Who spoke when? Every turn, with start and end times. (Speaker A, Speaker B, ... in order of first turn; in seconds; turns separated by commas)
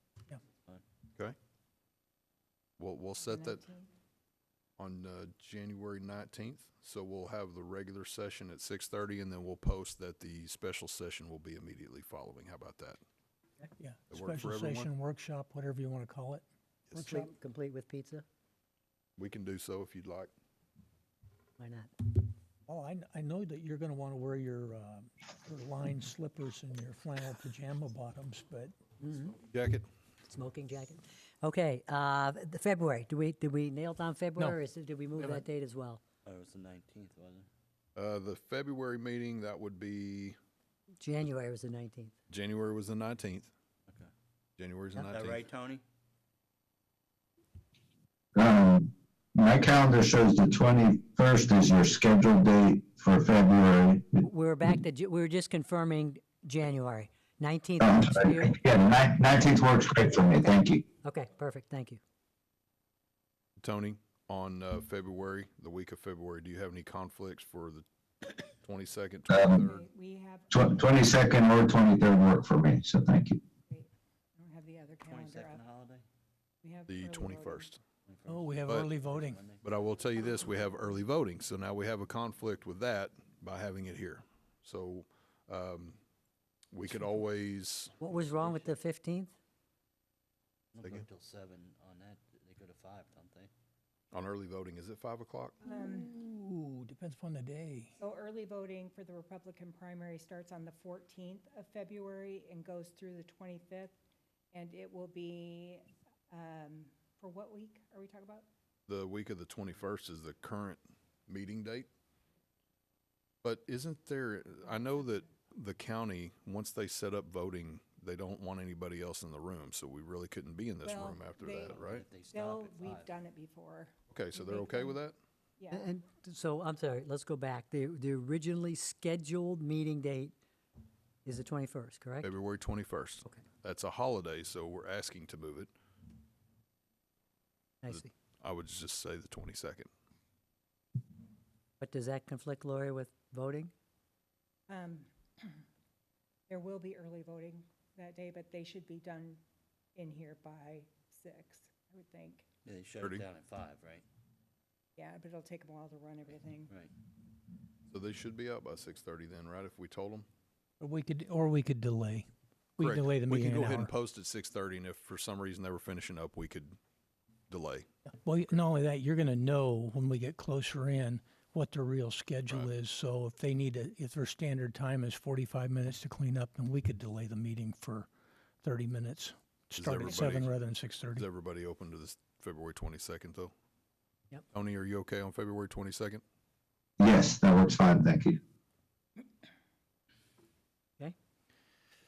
Speaker A: 2.8-3.6, Speaker B: 3.2-3.9, Speaker A: 4.8-13.0, Speaker C: 13.8-17.3, Speaker A: 14.1-14.9, Speaker A: 16.9-17.2, Speaker D: 16.9-18.2, Speaker A: 19.2-20.3, Speaker D: 21.6-21.9, Speaker C: 22.7-28.7, Speaker D: 29.0-29.4, Speaker A: 29.4-29.9, Speaker D: 30.2-36.0, Speaker A: 35.2-35.4, Speaker E: 36.2-37.5, Speaker A: 38.0-40.4, Speaker D: 41.0-42.1, Speaker A: 42.3-43.5, Speaker A: 44.6-45.4, Speaker E: 45.1-45.8, Speaker F: 48.3-54.2, Speaker D: 54.2-58.6, Speaker F: 57.8-60.8, Speaker D: 61.0-62.0, Speaker A: 63.6-67.8, Speaker A: 68.6-69.8, Speaker B: 69.5-71.0, Speaker F: 70.5-73.4, Speaker B: 73.7-75.6, Speaker E: 75.1-76.0, Speaker B: 76.6-77.7, Speaker A: 76.9-77.8, Speaker E: 78.1-79.6, Speaker C: 78.3-79.4, Speaker A: 79.6-86.0, Speaker A: 86.7-88.0, Speaker D: 88.0-89.3, Speaker E: 90.7-93.5, Speaker A: 94.1-95.6, Speaker C: 95.6-97.9, Speaker B: 95.7-96.1, Speaker B: 98.0-103.9, Speaker B: 104.5-108.5, Speaker A: 108.9-111.9, Speaker A: 113.4-122.0, Speaker B: 120.8-125.0, Speaker E: 121.6-123.1, Speaker A: 124.1-125.2, Speaker B: 125.6-125.9, Speaker D: 125.7-130.3, Speaker D: 131.2-132.3, Speaker A: 132.2-135.7, Speaker D: 137.8-138.1, Speaker A: 137.9-139.9, Speaker D: 141.8-143.7, Speaker B: 144.7-145.6, Speaker B: 146.5-149.4, Speaker B: 149.9-152.4, Speaker E: 152.6-154.0, Speaker B: 154.9-156.7, Speaker E: 156.7-156.9, Speaker A: 157.9-160.3, Speaker C: 160.8-163.9, Speaker A: 162.8-166.8, Speaker A: 167.5-167.9, Speaker C: 168.2-178.1, Speaker C: 178.6-181.2, Speaker A: 179.8-180.5, Speaker A: 181.1-183.5, Speaker A: 184.5-186.2, Speaker F: 187.0-188.4